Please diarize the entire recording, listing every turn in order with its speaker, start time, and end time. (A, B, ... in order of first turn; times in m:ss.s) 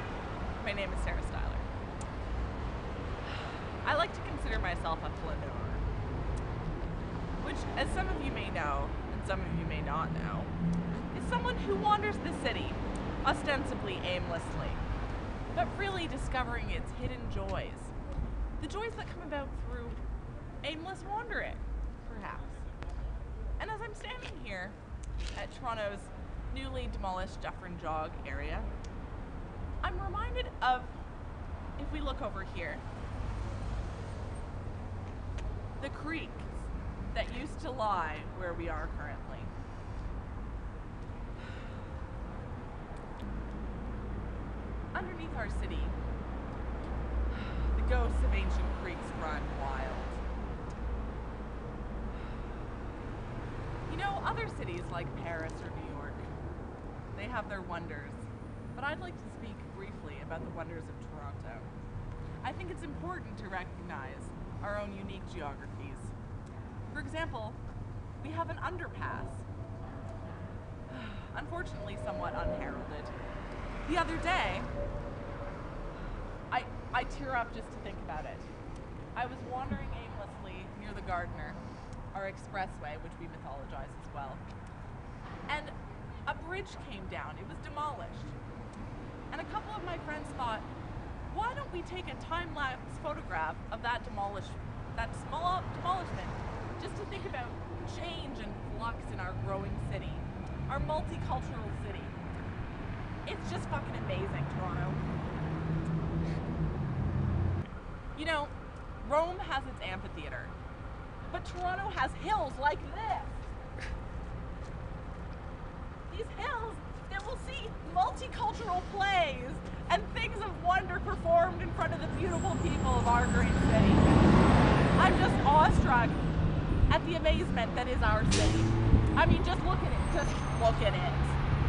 0:00.6-0:01.7 A
0:03.2-0:05.8 A
0:07.4-0:10.5 A
0:11.1-0:14.8 A
0:15.5-0:17.9 A
0:18.6-0:20.0 A
0:20.6-0:22.6 A
0:23.6-0:24.8 A
0:25.4-0:28.7 A
0:29.8-0:31.0 A
0:31.8-0:32.8 A
0:35.8-0:36.5 A
0:37.1-0:39.5 A
0:44.9-0:46.0 A
0:47.3-0:50.2 A
0:53.9-0:56.3 A
0:57.1-1:01.7 A
1:02.4-1:06.1 A
1:06.9-1:07.6 A
1:08.2-1:09.4 A
1:10.9-1:13.1 A
1:13.8-1:14.7 A
1:16.5-1:18.5 A
1:19.1-1:21.6 A
1:22.1-1:24.4 A
1:25.5-1:25.8 A
1:26.2-1:28.3 A
1:29.3-1:30.7 A
1:31.3-1:42.2 A
1:43.2-1:45.0 A
1:48.1-1:50.5 A
1:51.3-1:53.5 A
1:56.1-2:04.2 A
2:05.0-2:06.2 A
2:06.9-2:11.4 A